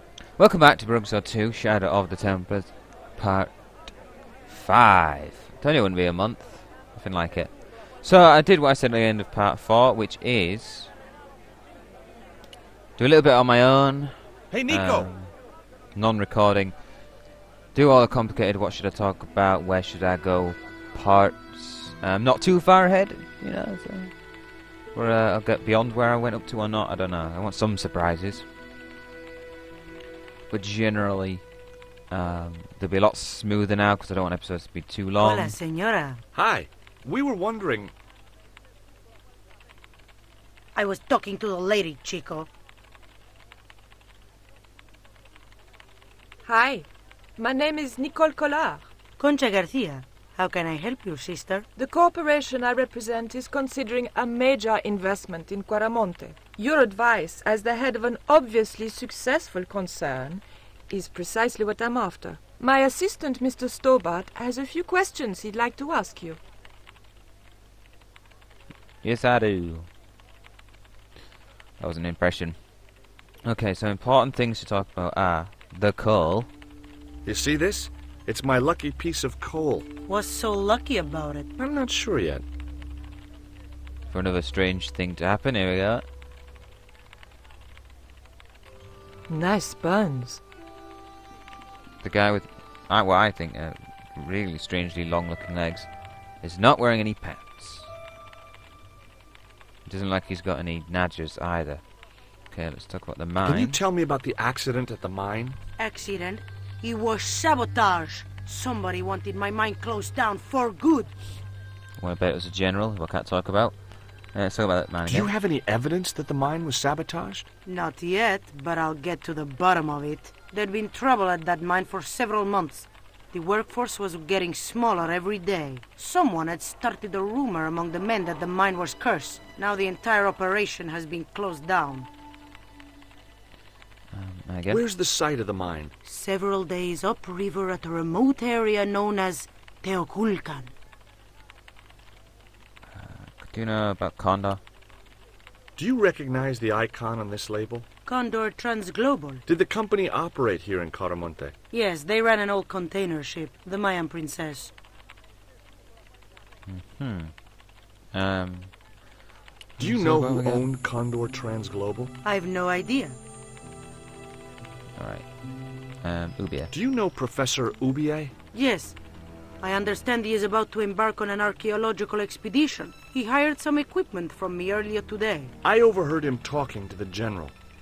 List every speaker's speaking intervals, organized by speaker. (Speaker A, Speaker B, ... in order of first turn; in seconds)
Speaker A: 0.3-10.9, 13.0-15.3, 15.9-16.8, 17.7-24.2, 24.9-28.4, 30.5-31.5, 32.1-35.5, 69.0-69.9, 71.8-72.7, 73.4-76.5, 84.1-86.0, 92.0-97.9, 99.8-101.8, 102.5-103.8, 112.0-115.3, 134.1-134.8, 142.9-144.6, 156.7-157.4, 158.1-158.8, 159.8-160.7, 164.9-165.4, 165.9-166.7
Speaker B: 14.5-15.1, 36.3-37.9, 77.2-79.9, 81.6-82.4, 103.4-105.6, 115.0-117.5, 134.7-135.9, 145.8-147.8, 149.5-151.5, 159.8-162.1, 166.7-168.3, 175.6-177.5
Speaker C: 35.2-36.2, 40.7-42.5, 49.2-51.7, 80.1-81.5, 105.8-111.1, 117.7-132.1, 136.0-140.7, 148.1-149.4, 151.7-154.7, 162.2-163.2, 168.5-169.0, 169.6-175.5
Speaker D: 46.4-48.9, 51.8-66.4, 89.3-90.4